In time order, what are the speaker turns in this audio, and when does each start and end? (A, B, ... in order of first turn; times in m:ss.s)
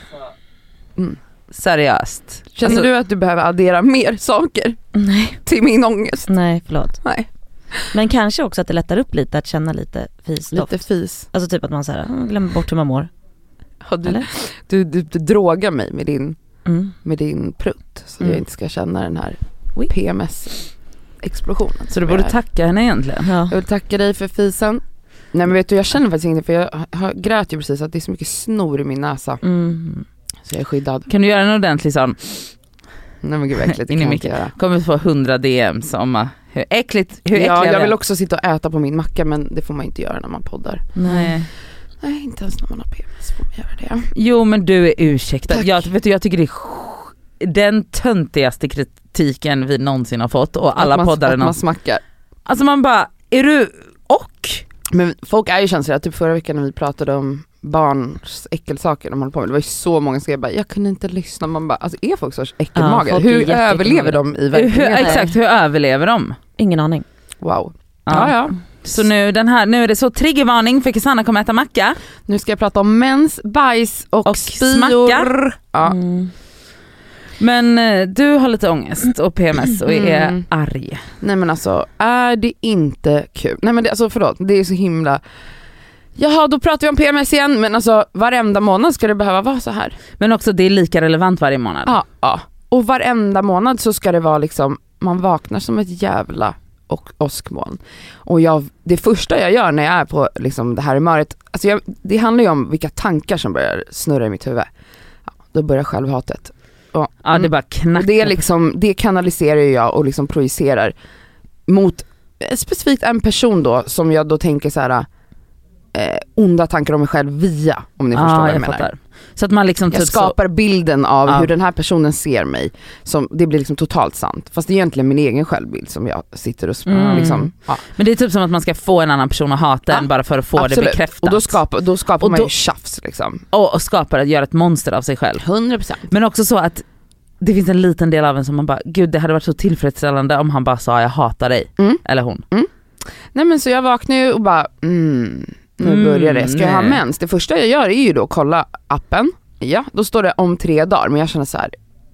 0:01.5-0:02.9 A
0:02.5-0:04.8 B
0:05.0-0:05.4 C
0:05.4-0:06.3 B
0:06.3-0:07.0 C
0:07.9-0:10.8 C
0:10.5-0:11.3 B
0:11.3-0:13.1 C
0:13.8-0:16.4 B
0:16.7-0:16.9 C
0:17.0-0:20.6 B
0:21.2-0:22.3 B
0:21.9-0:23.3 A
0:23.2-0:23.5 C
0:23.5-0:24.8 B
0:25.3-0:29.4 B
0:29.4-0:30.0 C
0:30.5-0:31.1 B
0:31.1-0:32.5 A
0:33.2-0:34.5 B
0:33.8-0:38.0 A
0:37.3-0:41.0 B
0:41.0-0:41.3 C
0:41.0-0:41.5 A
0:42.0-0:44.1 B
0:44.1-0:51.6 A
0:45.5-0:45.8 B
0:50.8-0:52.0 B
0:52.4-0:54.6 A
0:54.9-1:05.2 B
1:02.8-1:04.2 C
1:04.5-1:06.4 A
1:05.0-1:05.3 C
1:06.6-1:07.1 C
1:07.4-1:08.6 B
1:08.1-1:12.0 A
1:12.3-1:16.0 B
1:14.2-1:15.3 A
1:15.8-1:16.3 C
1:17.4-1:21.1 A
1:19.9-1:20.4 B
1:21.2-1:25.2 B
1:26.2-1:30.0 B
1:30.2-1:32.0 A
1:31.9-1:44.7 B
1:45.4-1:50.9 B
1:47.2-1:48.4 A
1:51.7-1:55.1 B
1:55.9-1:58.9 B
1:58.1-2:00.4 A
1:59.9-2:07.8 B
2:06.9-2:07.4 C
2:07.0-2:11.6 A
2:09.9-2:13.4 B
2:12.2-2:12.5 A
2:13.5-2:15.4 A
2:15.4-2:16.1 B
2:16.1-2:16.8 A
2:17.4-2:22.4 A
2:21.8-2:22.7 B
2:23.3-2:31.7 B
2:25.8-2:27.0 A